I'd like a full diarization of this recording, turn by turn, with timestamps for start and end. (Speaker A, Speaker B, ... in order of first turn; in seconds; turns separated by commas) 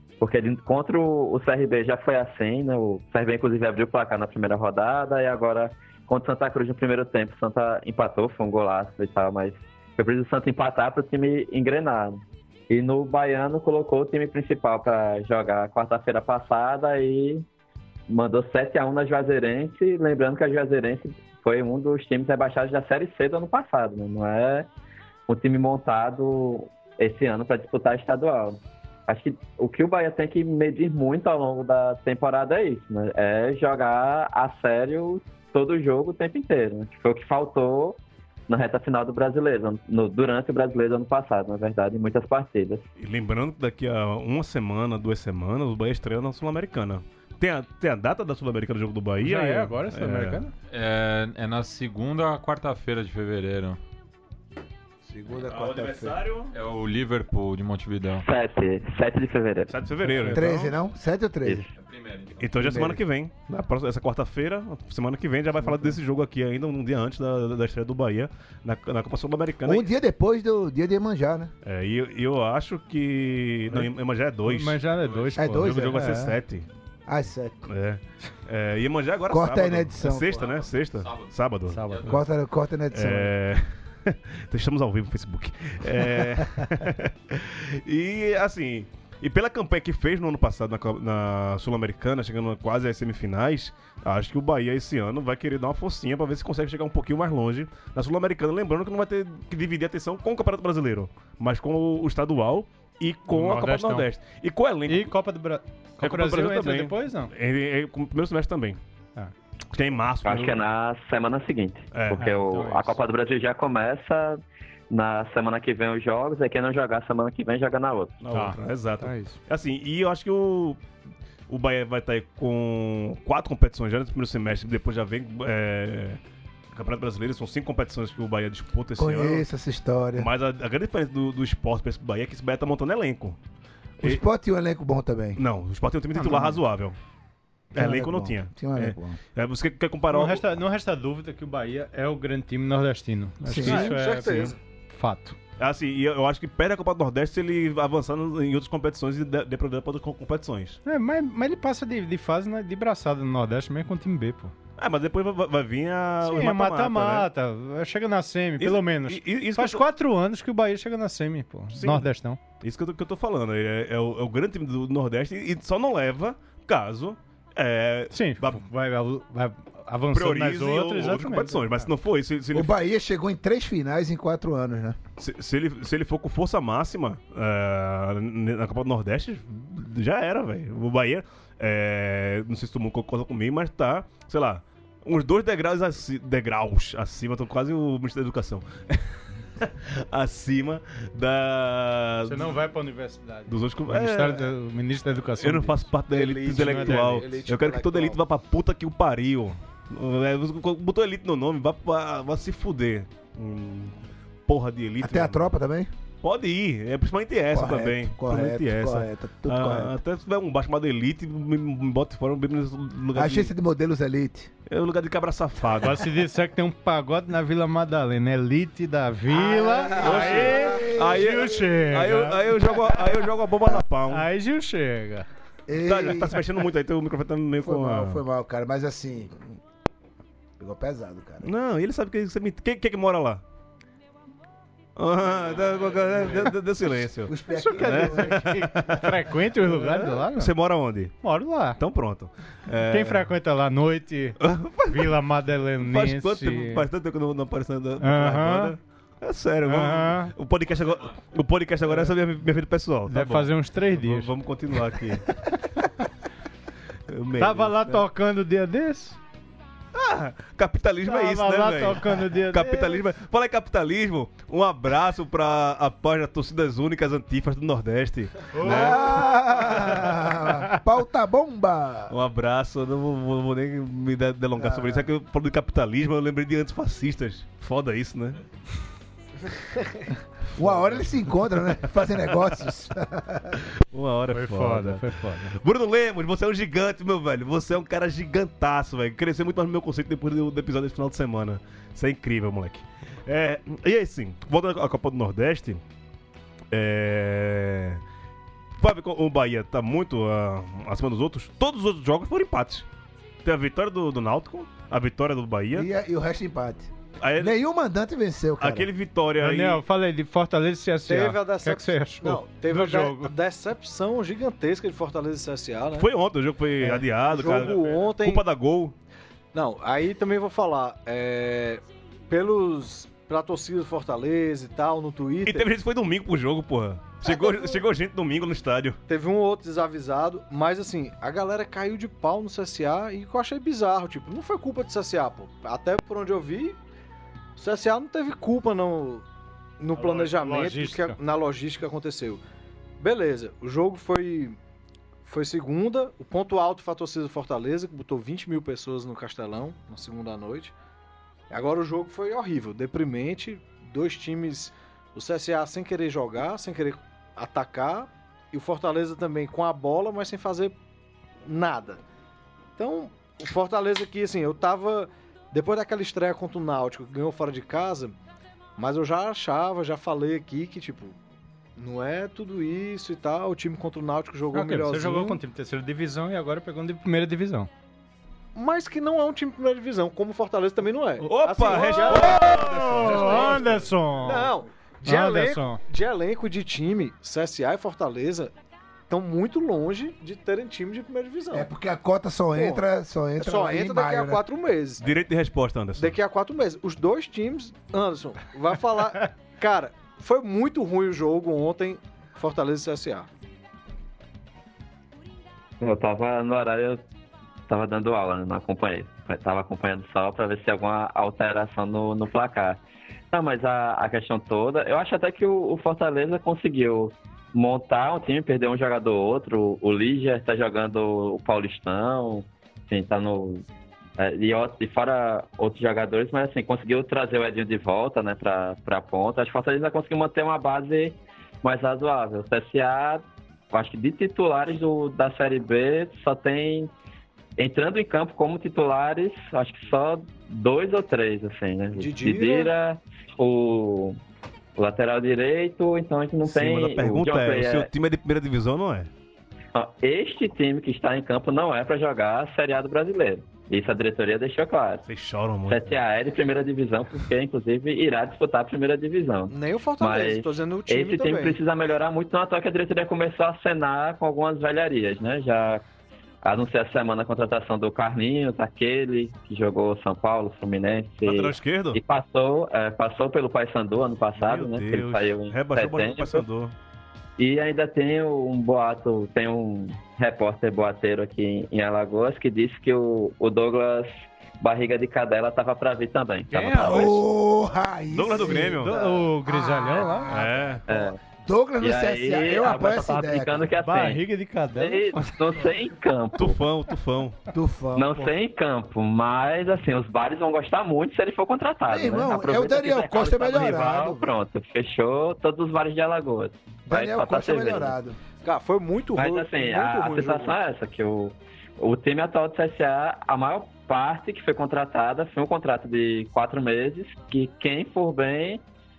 Speaker A: 0.2-17.4, Speaker A: 18.1-24.7, Speaker A: 25.3-42.9, Speaker B: 43.0-50.4, Speaker C: 49.2-50.5, Speaker D: 50.7-53.8, Speaker E: 55.1-56.2, Speaker B: 55.5-56.5, Speaker D: 56.5-58.2, Speaker A: 58.2-59.7, Speaker B: 59.7-60.7, Speaker C: 60.0-60.5, Speaker E: 60.3-61.7, Speaker D: 61.8-62.5, Speaker B: 62.4-69.9, Speaker E: 62.6-63.0, Speaker E: 69.7-71.5, Speaker B: 71.6-74.8, Speaker C: 74.5-76.4, Speaker D: 75.0-75.4, Speaker E: 75.4-76.1, Speaker B: 75.6-76.7, Speaker E: 77.1-77.6, Speaker B: 77.7-81.8, Speaker E: 79.3-80.4, Speaker D: 80.3-81.3, Speaker C: 81.7-82.1, Speaker D: 81.9-82.2, Speaker E: 82.1-83.3, Speaker B: 82.9-105.1, Speaker C: 103.3-104.1, Speaker C: 104.9-107.3, Speaker B: 106.0-108.8, Speaker B: 109.7-110.6, Speaker A: 110.2-118.2, Speaker B: 111.9-112.4, Speaker C: 112.1-113.0, Speaker B: 118.2-120.8, Speaker C: 118.3-119.4, Speaker B: 121.5-126.2, Speaker B: 126.7-129.4, Speaker E: 129.0-130.3, Speaker B: 130.2-133.4, Speaker E: 134.0-135.4, Speaker B: 135.4-137.0, Speaker C: 136.1-136.6, Speaker B: 137.7-140.4, Speaker E: 137.8-139.2, Speaker C: 140.1-145.4, Speaker E: 143.4-144.0, Speaker F: 143.6-144.6, Speaker B: 145.6-150.8, Speaker C: 150.8-154.5, Speaker B: 154.8-157.3, Speaker C: 156.2-162.4, Speaker B: 158.6-159.8, Speaker B: 161.7-162.1, Speaker B: 162.6-168.6, Speaker C: 168.1-171.9, Speaker B: 170.1-172.7, Speaker E: 172.5-175.0, Speaker B: 175.2-192.6, Speaker C: 192.3-195.9, Speaker B: 193.5-194.5, Speaker B: 195.4-205.5, Speaker F: 196.1-198.2, Speaker C: 196.5-197.3, Speaker E: 205.0-205.9, Speaker B: 206.2-213.5, Speaker E: 207.5-210.0, Speaker E: 213.2-214.5, Speaker B: 214.7-216.1, Speaker C: 215.8-223.2, Speaker E: 219.3-221.3, Speaker B: 220.0-224.3, Speaker C: 224.1-225.3, Speaker E: 225.7-226.4, Speaker B: 225.8-228.2, Speaker E: 227.6-229.3, Speaker E: 230.6-231.5, Speaker B: 231.4-233.4, Speaker B: 235.0-241.2, Speaker E: 237.2-238.6, Speaker C: 237.6-240.5, Speaker C: 241.2-241.8, Speaker B: 241.8-243.3, Speaker C: 242.9-246.9, Speaker B: 244.4-245.2, Speaker B: 245.8-255.3, Speaker C: 248.0-248.8, Speaker C: 249.7-250.3, Speaker C: 251.9-252.1, Speaker C: 253.1-254.3, Speaker B: 257.1-258.1, Speaker C: 257.4-259.2, Speaker B: 259.9-270.4, Speaker C: 261.1-263.0, Speaker C: 268.5-269.3, Speaker E: 268.6-272.1, Speaker B: 272.1-278.4, Speaker E: 274.6-275.0, Speaker E: 280.6-283.6, Speaker B: 280.6-281.2, Speaker B: 283.9-295.8, Speaker C: 284.3-285.6, Speaker B: 296.7-298.0, Speaker B: 298.8-302.9, Speaker B: 303.4-305.9, Speaker E: 305.7-308.9, Speaker B: 307.2-307.6, Speaker B: 308.6-309.8, Speaker C: 309.4-313.3, Speaker F: 311.1-316.1, Speaker B: 315.9-318.9, Speaker F: 316.8-318.4, Speaker F: 319.5-325.7, Speaker B: 325.5-329.0, Speaker F: 327.2-327.8, Speaker F: 329.1-336.8, Speaker F: 337.6-339.2, Speaker F: 339.8-342.4, Speaker C: 339.9-341.2, Speaker F: 343.0-344.6, Speaker F: 345.2-350.7, Speaker F: 351.5-360.8, Speaker F: 361.5-362.0, Speaker F: 362.8-368.2, Speaker F: 368.8-371.2, Speaker F: 371.8-375.4, Speaker C: 374.5-377.7, Speaker F: 378.6-383.6, Speaker B: 381.2-383.9, Speaker C: 381.7-384.5, Speaker F: 384.2-388.5, Speaker C: 385.1-385.8, Speaker F: 389.1-391.7, Speaker E: 391.5-394.4, Speaker F: 392.5-392.8, Speaker F: 393.4-395.0, Speaker B: 395.0-396.2, Speaker F: 396.0-403.3, Speaker A: 405.8-407.0, Speaker A: 407.7-412.8, Speaker A: 413.3-423.7, Speaker A: 424.2-436.9, Speaker A: 437.6-444.2, Speaker F: 441.9-442.7, Speaker A: 444.8-447.9, Speaker B: 446.4-449.1, Speaker A: 449.7-455.0, Speaker B: 455.1-456.0, Speaker A: 455.7-465.8, Speaker F: 459.5-461.6, Speaker A: 466.4-476.4, Speaker B: 471.2-472.0, Speaker B: 474.4-476.7, Speaker A: 477.4-487.1, Speaker C: 486.5-487.1, Speaker E: 486.7-493.7, Speaker B: 488.1-488.9, Speaker C: 488.8-490.3, Speaker B: 490.3-490.8, Speaker A: 490.9-491.2, Speaker A: 491.8-494.2, Speaker C: 493.8-495.3, Speaker A: 494.8-496.6, Speaker B: 496.4-497.4, Speaker E: 497.5-498.3, Speaker A: 497.9-507.9, Speaker E: 501.9-504.3, Speaker E: 506.9-508.2, Speaker F: 508.4-510.6, Speaker A: 509.2-518.6